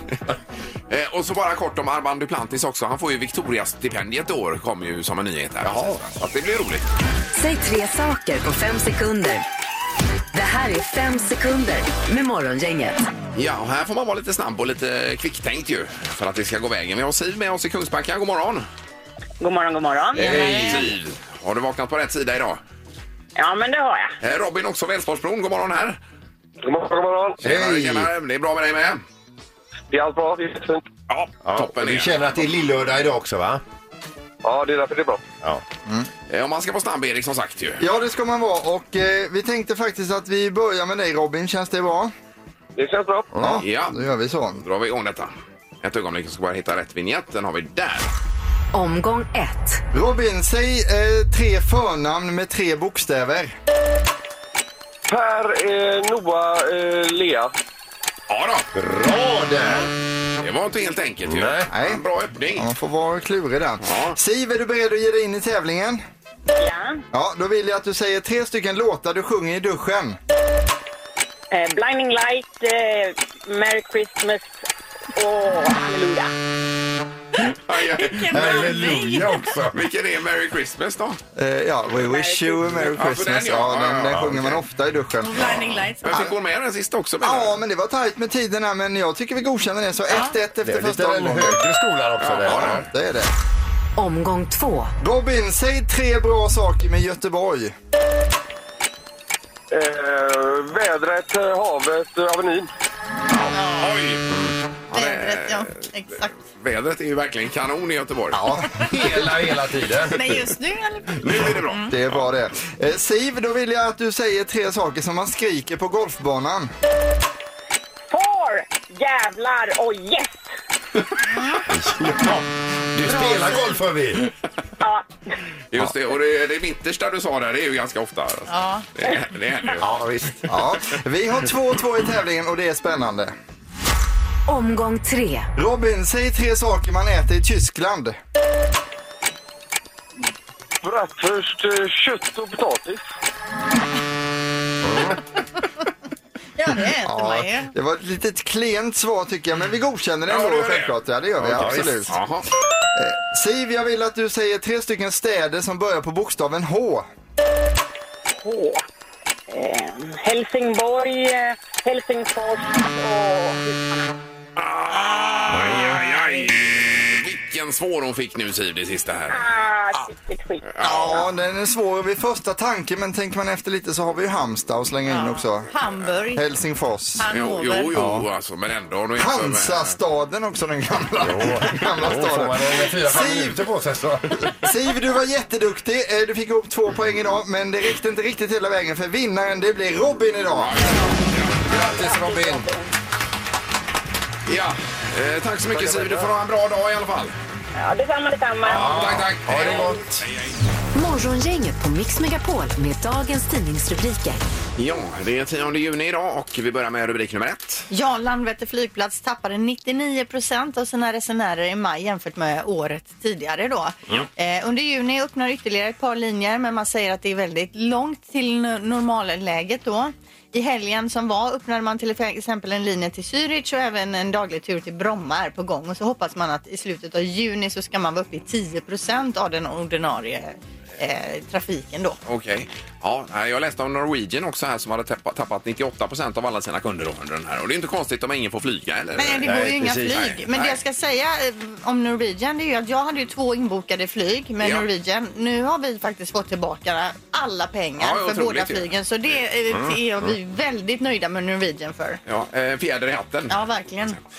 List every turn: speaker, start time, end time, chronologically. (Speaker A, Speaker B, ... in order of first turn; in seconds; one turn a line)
Speaker A: 0.9-6.9
Speaker B: 5.6-6.1
Speaker C: 7.3-9.4
Speaker C: 10.3-13.0
Speaker A: 13.3-18.7
Speaker D: 19.4-20.3
Speaker A: 20.1-22.6
Speaker E: 20.2-20.9
Speaker B: 20.2-20.8
Speaker D: 23.4-24.2
Speaker A: 24.2-26.0
Speaker F: 26.6-27.4
Speaker B: 27.4-28.1
Speaker A: 27.4-29.0
Speaker F: 29.9-30.9
Speaker A: 31.1-32.3
Speaker B: 31.4-33.6
Speaker F: 34.4-35.2
Speaker A: 36.3-37.8
Speaker G: 37.8-42.1
Speaker F: 42.8-43.3
Speaker B: 43.4-43.6
Speaker G: 43.4-44.6
Speaker A: 43.6-44.0
Speaker A: 44.6-48.1
Speaker C: 48.7-49.8
Speaker G: 49.9-53.5
Speaker F: 55.1-57.5
Speaker A: 58.3-58.7
Speaker B: 58.8-59.9
Speaker A: 60.4-62.7
Speaker B: 61.3-61.7
Speaker G: 61.7-62.0
Speaker G: 62.6-66.0
Speaker A: 63.8-64.2
Speaker D: 66.6-67.0
Speaker G: 67.1-70.2
Speaker D: 71.5-74.6
Speaker D: 75.2-76.3
Speaker A: 77.4-79.0
Speaker E: 78.0-79.5
Speaker B: 78.3-79.8
Speaker A: 79.6-81.2
Speaker G: 81.4-86.3
Speaker D: 81.9-82.7
Speaker A: 82.9-84.6
Speaker E: 85.2-86.3
Speaker A: 86.0-87.6
Speaker G: 87.2-91.6
Speaker B: 90.6-92.9
Speaker A: 92.2-92.9
Speaker G: 92.7-93.3
Speaker C: 94.0-94.9
Speaker G: 95.0-97.7
Speaker F: 99.7-102.7
Speaker A: 103.3-104.2
Speaker E: 103.5-104.0
Speaker A: 104.9-105.8
Speaker E: 104.9-106.4
Speaker A: 106.4-108.4
Speaker B: 108.3-110.4
Speaker G: 108.4-108.7
Speaker E: 110.1-111.9
Speaker A: 111.2-112.3
Speaker G: 111.9-116.7
Speaker D: 118.1-120.5
Speaker B: 121.7-124.3
Speaker D: 124.8-125.2
Speaker A: 125.7-129.9
Speaker E: 128.5-128.8
Speaker B: 129.8-130.5
Speaker G: 130.5-133.3
Speaker C: 134.5-135.5
Speaker G: 135.6-138.2
Speaker F: 140.8-143.0
Speaker B: 144.8-145.2
Speaker E: 146.6-147.7
Speaker G: 147.0-152.2
Speaker A: 150.3-152.5
Speaker B: 151.4-152.1
Speaker G: 152.9-157.1
Speaker D: 158.3-158.8
Speaker D: 159.5-163.9
Speaker A: 164.6-169.4
Speaker E: 165.2-166.2
Speaker D: 169.3-170.7
Speaker A: 170.7-171.3
Speaker E: 170.8-171.2
Speaker G: 170.8-175.7
Speaker E: 175.1-176.4
Speaker G: 176.3-177.2
Speaker E: 177.2-177.9
Speaker A: 177.3-180.0
Speaker B: 177.9-178.2
Speaker G: 179.2-183.6
Speaker B: 181.2-184.5
Speaker G: 184.5-190.8
Speaker A: 190.5-191.9
Speaker D: 191.7-192.9
Speaker B: 191.7-192.7
Speaker A: 194.5-197.4
Speaker D: 197.8-198.9
Speaker A: 198.7-200.6
Speaker B: 198.7-200.2
Speaker C: 200.9-204.4
Speaker A: 204.8-207.9
Speaker E: 207.9-232.2
Speaker A: 232.3-239.6
Speaker E: 239.2-252.2
Speaker B: 239.4-240.2
Speaker A: 240.1-240.8
Speaker A: 244.6-244.9
Speaker A: 248.0-248.9
Speaker B: 249.7-250.0
Speaker A: 252.3-253.6
Speaker E: 253.5-254.2